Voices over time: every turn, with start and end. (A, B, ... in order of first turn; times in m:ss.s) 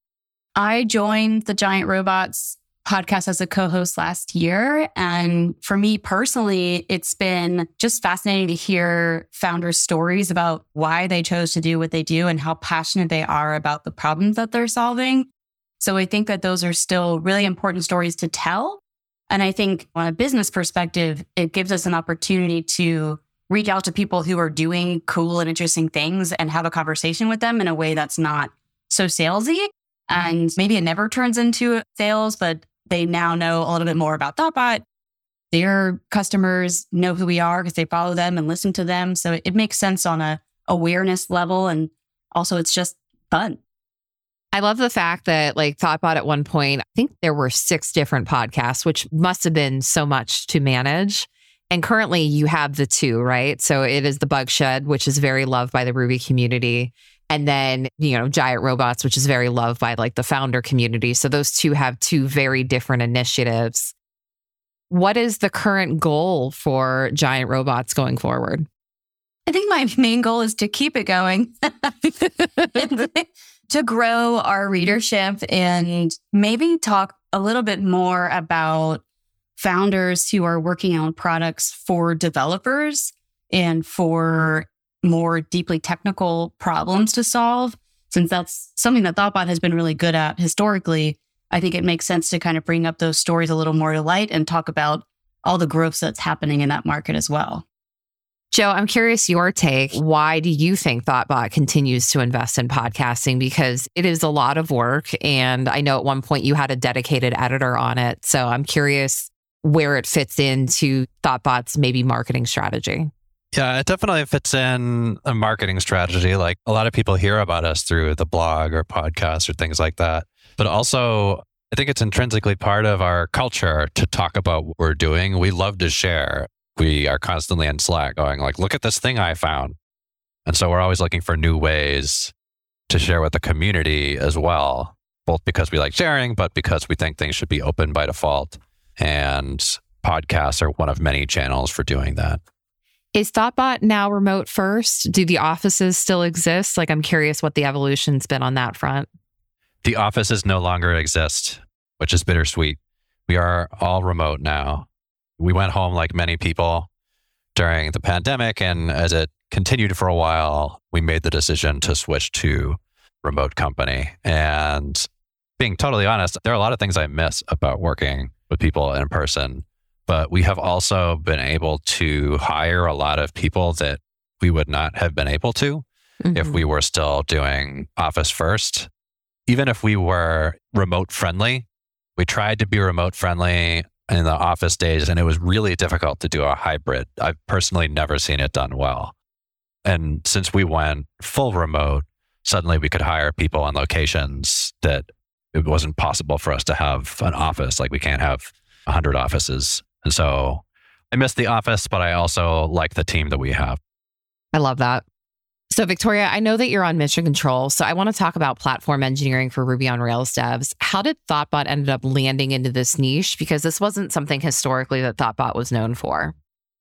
0:00.6-0:15.3 A
0:15.8-0:34.8 A
0:35.5-0:43.6 A
0:44.5-1:03.9 B
1:04.9-1:08.7 B
1:09.5-1:19.0 A
1:19.6-1:37.6 A
1:38.5-1:53.1 B
1:53.5-2:09.8 C
2:10.5-2:12.3 C
2:12.9-2:22.4 C
2:23.2-2:29.1 B
2:29.8-2:34.9 C
2:35.4-2:36.9 C
2:37.6-2:45.1 C
2:45.6-2:55.8 C
2:56.2-2:56.6 B
2:56.4-2:58.9 C
2:59.5-3:01.7 C
3:02.2-3:09.1 C
3:09.8-3:23.8 C
3:24.5-3:25.0 B
3:25.7-3:36.4 B